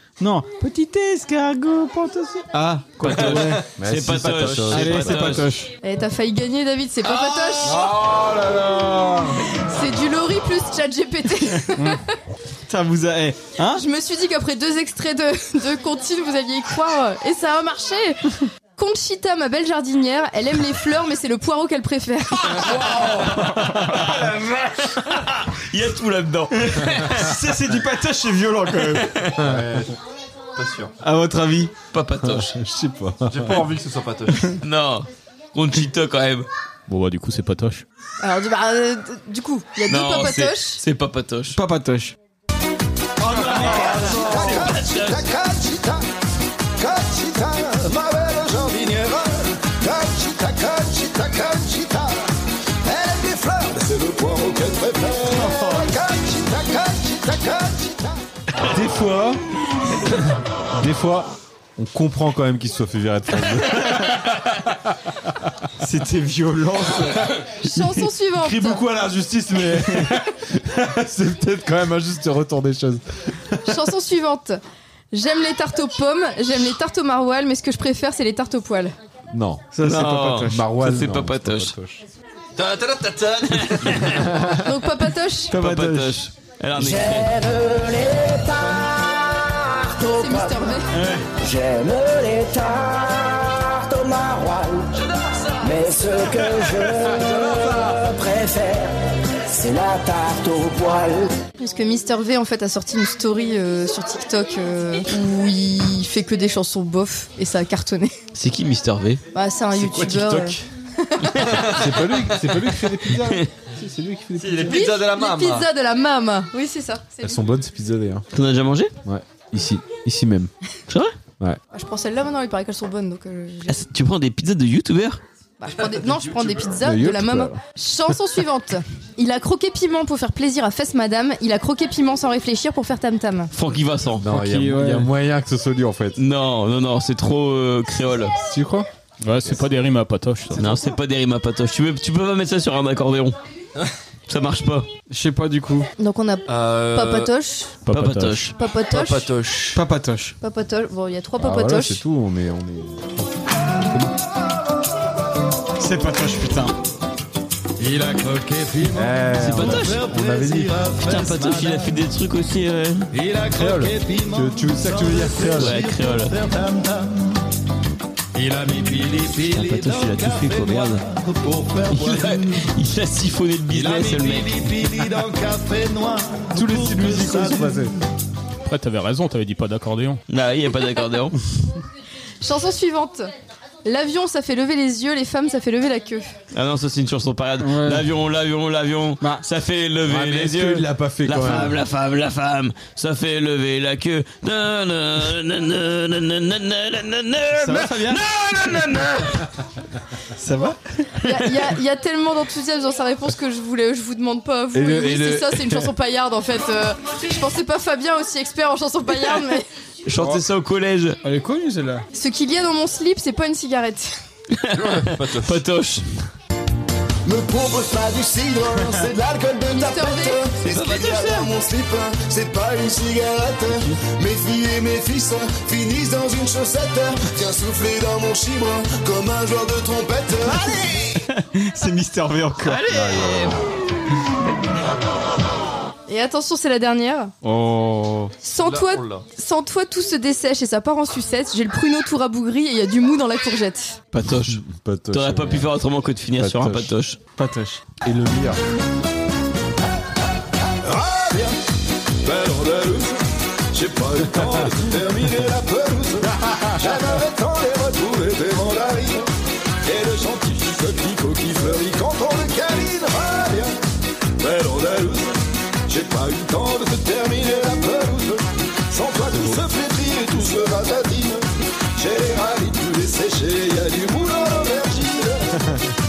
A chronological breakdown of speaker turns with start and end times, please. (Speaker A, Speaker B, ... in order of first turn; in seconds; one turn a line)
Speaker A: 0.2-3.6
Speaker B: 3.0-5.5
Speaker C: 3.8-5.4
Speaker A: 4.7-5.7
Speaker D: 5.8-7.9
Speaker C: 7.6-9.4
Speaker D: 9.5-12.0
Speaker A: 11.7-12.0
Speaker A: 12.7-13.8
Speaker D: 13.7-22.7
Speaker C: 22.5-24.1
Speaker B: 23.0-27.4
Speaker A: 26.6-29.1
Speaker B: 28.9-29.4
Speaker C: 29.4-29.8
Speaker E: 29.4-29.9
Speaker E: 30.6-30.9
Speaker A: 31.0-31.7
Speaker B: 31.9-32.5
Speaker C: 32.2-33.7
Speaker E: 33.3-34.6
Speaker B: 34.6-36.5
Speaker F: 36.9-37.8
Speaker D: 38.2-40.8
Speaker B: 39.9-41.6
Speaker A: 41.5-42.1
Speaker A: 43.2-44.5
Speaker B: 43.3-45.2
Speaker C: 43.6-44.3
Speaker G: 43.7-46.0
Speaker G: 46.8-52.1
Speaker G: 52.8-58.2
Speaker A: 55.4-55.9
Speaker C: 58.6-59.4
Speaker C: 60.1-64.9
Speaker A: 65.8-68.0
Speaker D: 67.6-68.8
Speaker C: 68.3-73.7
Speaker D: 73.7-74.6
Speaker D: 75.1-78.9
Speaker C: 79.3-79.7
Speaker A: 79.7-80.6
Speaker B: 79.8-81.7
Speaker C: 80.4-82.0
Speaker E: 82.5-84.2
Speaker B: 83.5-84.3
Speaker C: 84.1-84.7
Speaker D: 84.6-85.5
Speaker A: 85.5-86.2
Speaker B: 85.5-87.3
Speaker H: 86.8-90.7
Speaker D: 90.0-90.9
Speaker H: 91.4-94.9
Speaker H: 95.6-98.9
Speaker H: 99.5-101.3
Speaker D: 101.6-108.2
Speaker B: 108.3-109.2
Speaker D: 109.3-111.5
Speaker C: 109.8-110.5
Speaker E: 111.5-112.4
Speaker C: 111.6-114.9
Speaker E: 114.4-115.7
Speaker D: 114.7-117.4
Speaker C: 117.2-118.2
Speaker B: 118.3-118.9
Speaker C: 119.0-120.5
Speaker B: 120.9-121.2
Speaker D: 121.7-123.8
Speaker B: 123.7-125.2
Speaker D: 125.6-133.5
Speaker E: 125.7-126.7
Speaker C: 126.8-127.6
Speaker B: 133.5-134.3
Speaker C: 134.2-136.2
Speaker A: 134.3-135.1
Speaker B: 136.2-138.3
Speaker C: 138.5-138.9
Speaker F: 139.2-140.7
Speaker B: 140.5-143.3
Speaker B: 144.3-144.9
Speaker A: 145.1-145.9
Speaker D: 146.0-147.7
Speaker E: 146.5-147.3
Speaker F: 147.8-148.5
Speaker B: 147.9-148.5
Speaker D: 148.5-149.3
Speaker E: 148.9-149.8
Speaker A: 149.7-150.3
Speaker D: 150.4-152.0
Speaker C: 151.4-153.3
Speaker A: 155.8-156.8
Speaker G: 157.8-161.9
Speaker C: 158.9-160.8
Speaker B: 159.4-160.0
Speaker B: 161.0-163.1
Speaker G: 163.1-167.2
Speaker C: 163.5-165.8
Speaker B: 165.5-166.3
Speaker G: 168.3-172.6
Speaker B: 169.5-171.0
Speaker B: 171.9-174.8
Speaker G: 173.7-177.9
Speaker C: 176.5-177.9
Speaker F: 178.6-180.2
Speaker B: 180.3-181.3
Speaker D: 182.4-183.3
Speaker D: 183.8-186.3
Speaker B: 186.5-199.4
Speaker A: 187.6-188.1
Speaker C: 190.0-191.8
Speaker A: 197.5-198.2
Speaker A: 200.4-201.1
Speaker D: 201.2-209.7
Speaker C: 204.7-205.9
Speaker B: 210.0-211.2
Speaker A: 211.2-212.0
Speaker D: 212.1-214.2
Speaker B: 214.6-216.2
Speaker E: 214.7-215.6
Speaker G: 217.2-231.0
Speaker D: 219.7-220.5
Speaker B: 220.6-221.5
Speaker A: 231.2-232.8
Speaker B: 232.6-233.6
Speaker C: 232.9-233.6
Speaker D: 236.1-237.3
Speaker A: 237.4-238.3
Speaker D: 238.4-244.0
Speaker E: 238.6-239.2
Speaker B: 244.1-247.2
Speaker C: 244.3-245.7
Speaker C: 246.4-246.9
Speaker A: 247.3-247.8
Speaker C: 248.0-248.6
Speaker G: 250.8-251.6
Speaker G: 252.2-253.2
Speaker G: 253.7-259.3
Speaker C: 256.3-257.1
Speaker G: 259.8-263.7
Speaker G: 264.4-271.4
Speaker C: 269.3-269.6
Speaker G: 271.9-275.5